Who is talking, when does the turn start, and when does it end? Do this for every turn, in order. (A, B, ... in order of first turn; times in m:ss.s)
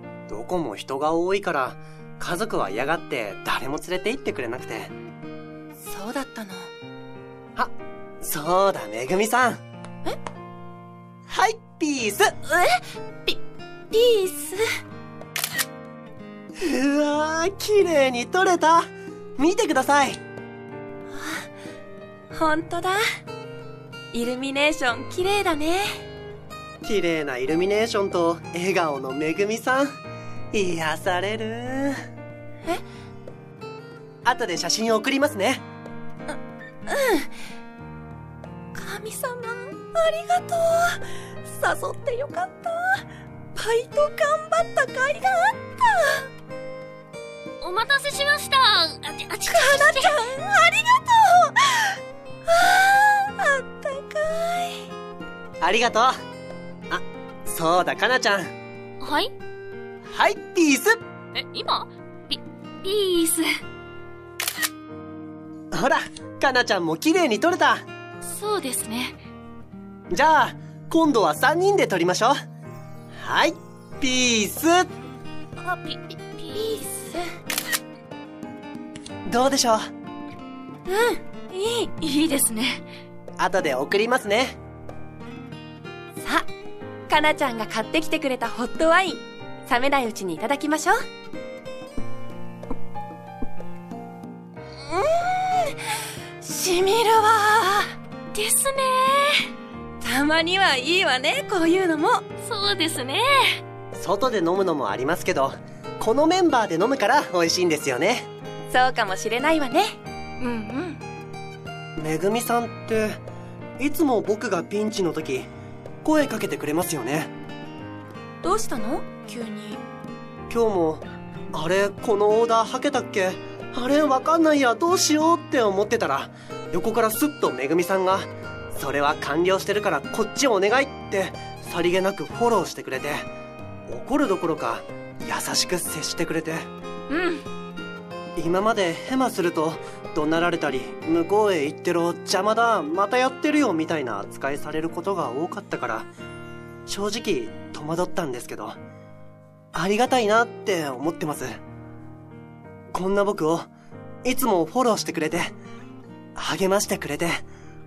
0:00.3-0:04.9 A
0:05.8-0:06.7 B
0:07.6-0:09.6 A
0:11.3-0:12.3 A
0:12.5-0:14.6 B
0:16.6-0:20.2 A
0:21.1-0:21.5 B
0:22.3-0:23.0 B
0:24.1-0:25.9 B
0:26.8-0:30.0 A
0:30.5-0:32.0 A
0:34.2-0:35.6 A
0:36.3-0:37.3 B
0:38.7-0:46.3 B
0:47.6-0:50.2 C
0:49.5-0:54.8 B
0:55.6-0:56.2 A
0:56.9-0:58.5 A
0:59.0-0:59.3 C
1:00.1-1:01.0 A
1:01.3-1:03.5 C
1:05.7-1:07.8 A
1:08.2-1:09.2 C
1:10.1-1:12.4 A
1:13.2-1:14.9 A
1:15.6-1:16.8 C
1:16.5-1:17.2 B
1:19.3-1:19.9 A
1:20.9-1:21.9 B
1:22.0-1:22.8 C
1:23.4-1:24.6 A
1:26.2-1:26.5 B
1:27.1-1:31.0 B
1:34.8-1:37.9 B
1:38.3-1:39.4 C
1:40.0-1:42.2 B
1:42.4-1:43.6 C
1:44.0-1:48.3 A
1:48.7-1:50.0 B
1:50.4-1:51.0 C
1:52.0-1:53.2 A
1:53.8-1:55.5 A
1:56.0-1:57.3 A
1:58.4-1:59.8 B
2:00.5-2:13.3 A
2:13.9-2:16.7 A
2:17.1-2:17.4 C
2:18.4-2:26.1 A
2:26.9-2:28.8 A
2:29.7-2:31.6 A
2:32.9-2:33.7 A
2:34.2-2:35.5 A
2:36.4-2:37.4 A